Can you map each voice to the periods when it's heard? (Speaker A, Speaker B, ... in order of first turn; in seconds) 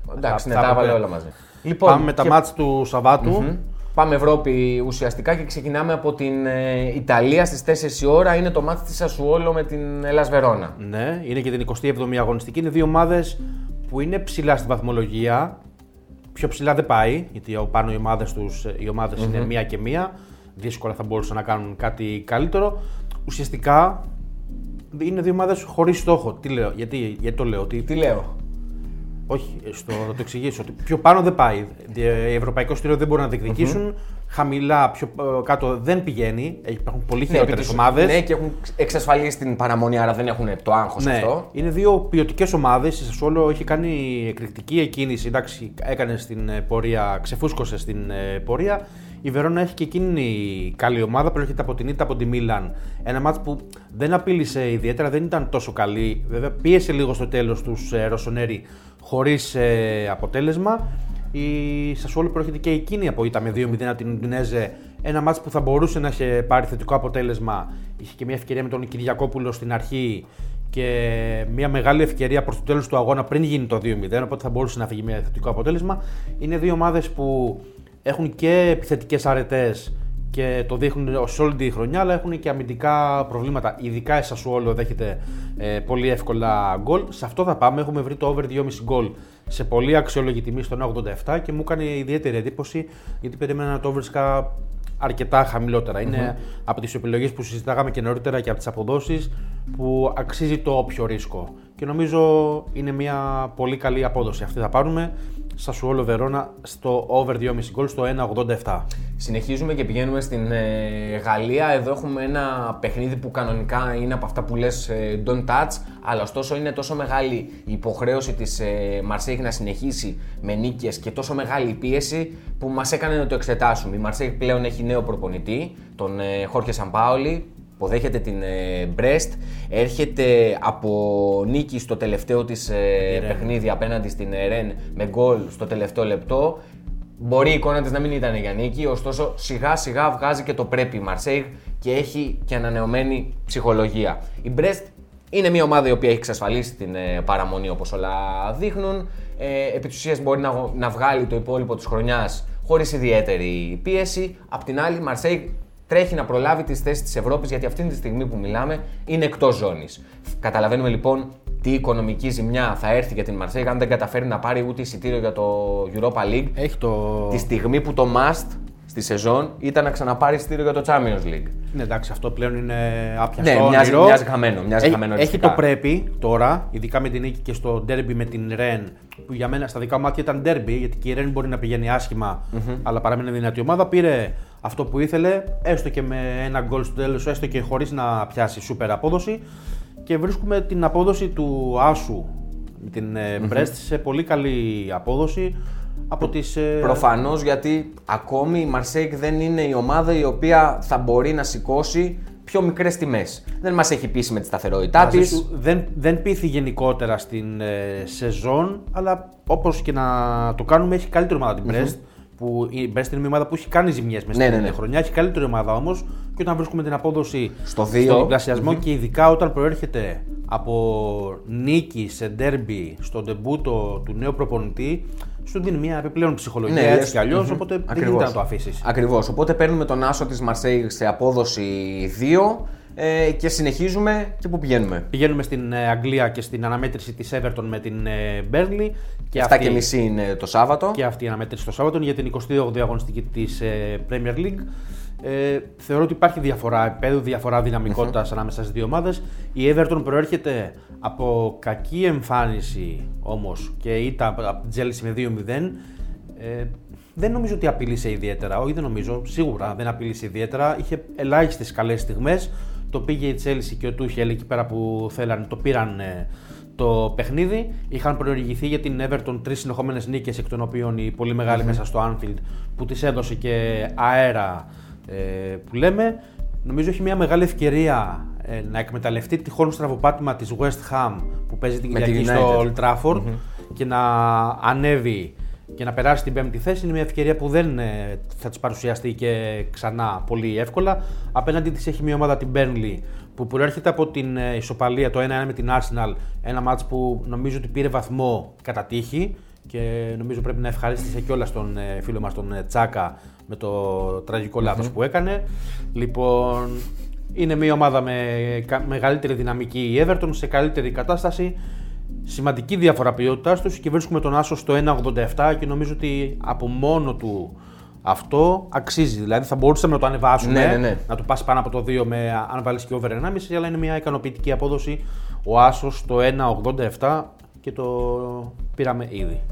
Speaker A: 0.1-2.4, 3.2-10.8, 19.2-19.5, 27.9-28.3, 33.5-33.8, 37.3-41.5, 96.1-96.3, 109.2-136.6, 137.2-166.6, 167.3-171.5, 173.4-175.6, 182.5-182.8, 193.4-193.7, 196.8-205.4, 214.3-214.8, 217.7-218.8, 226.7-235.1, 239.3-241.0, 271.5-271.8, 281.9-283.4, 304.6-304.9, 320.4-321.0
Speaker B: 0.2-1.0, 1.8-3.5, 10.8-15.6, 16.3-24.0, 24.9-27.9, 29.3-38.2, 41.0-108.9, 133.0-133.5, 166.6-167.5, 171.7-174.2, 174.8-189.4, 190.1-192.3, 192.8-195.6, 196.1-197.1, 205.0-228.8, 235.1-239.9, 240.9-244.7, 245.2-255.8, 256.4-311.6, 312.2-329.4